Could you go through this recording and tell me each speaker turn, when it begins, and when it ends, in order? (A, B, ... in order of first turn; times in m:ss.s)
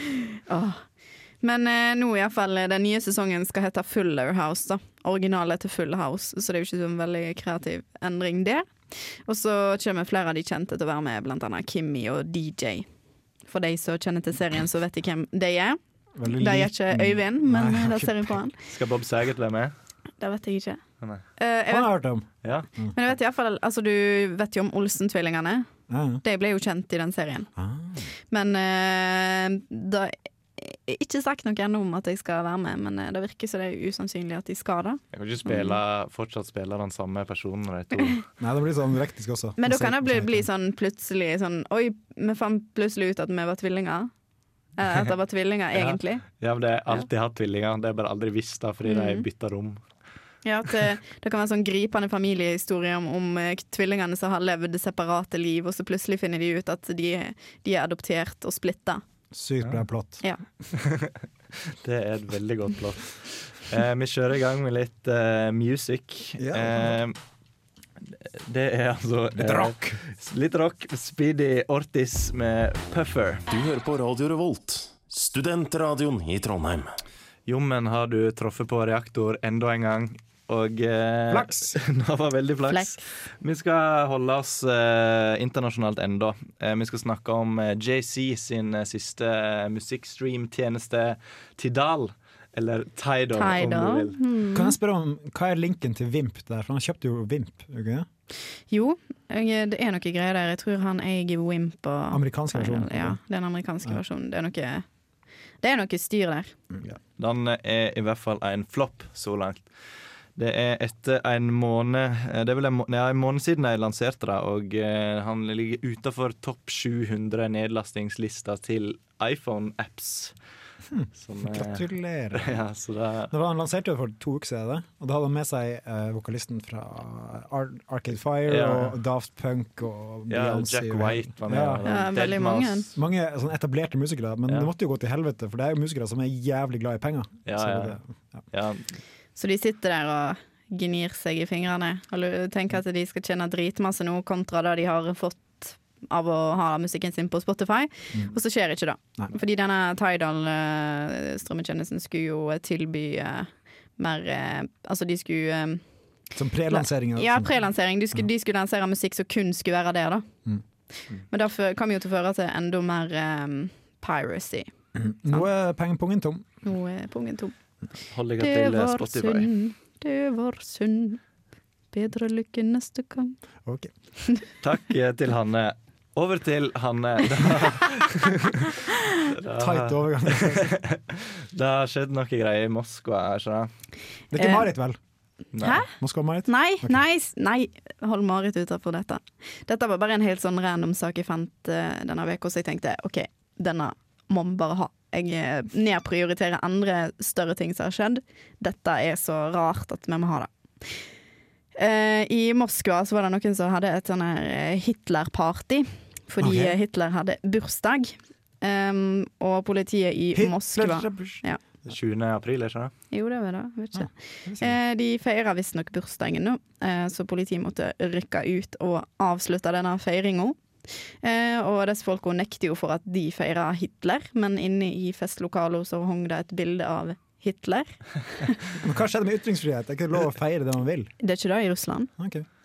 0:00.5-0:12.8 A
0:13.5-0:18.5 A
0:16.2-0:18.4 B
0:18.7-0:19.7 C
0:20.2-0:20.8 A
0:21.4-0:21.9 A
0:21.7-0:22.9 B
0:22.9-0:25.7 A
0:25.9-0:26.2 B
0:26.2-0:27.5 A
0:27.6-0:28.1 B
0:28.3-0:35.8 A
0:35.1-0:38.2 C
0:38.4-0:40.4 B
0:39.6-0:44.1 A
0:44.8-0:46.2 A
0:45.7-0:49.8 C
0:48.8-0:49.2 A
0:50.4-0:59.0 A
0:59.3-1:00.2 B
1:00.7-1:07.1 C
1:06.4-1:07.0 B
1:08.2-1:13.4 C
1:09.4-1:10.0 B
1:13.5-1:16.9 D
1:17.5-1:34.2 C
1:21.3-1:21.8 B
1:22.7-1:23.0 A
1:33.4-1:34.7 A
1:34.5-1:38.1 B
1:38.7-1:44.8 A
1:42.1-1:43.2 B
1:45.6-1:46.5 A
1:47.2-1:49.7 C
1:50.4-2:00.4 C
2:00.9-2:02.6 B
2:01.2-2:03.3 C
2:03.3-2:11.8 B
2:08.5-2:09.0 C
2:10.3-2:13.0 C
2:11.8-2:12.9 A
2:13.0-2:18.4 B
2:17.4-2:18.0 C
2:18.5-2:19.0 C
2:19.4-2:35.8 A
2:36.3-2:37.5 B
2:36.7-2:40.3 A
2:41.3-2:44.7 A
2:45.0-2:46.4 B
2:46.6-2:47.5 A
2:48.1-2:49.5 C
2:48.4-2:51.2 A
2:51.9-2:53.4 A
2:53.6-2:53.9 B
2:54.6-2:58.5 C
2:59.4-3:03.7 C
2:59.5-3:00.7 B
3:04.3-3:05.0 B
3:04.4-3:04.7 A
3:05.5-3:05.8 C
3:05.6-3:05.9 A
3:06.0-3:07.0 B
3:06.5-3:21.0 A
3:21.8-3:31.6 A
3:30.3-3:31.4 B
3:31.8-3:32.9 C
3:33.1-3:48.6 A
3:33.9-3:34.8 B
3:48.8-3:51.1 B
3:51.2-3:52.1 A
3:52.2-3:52.4 B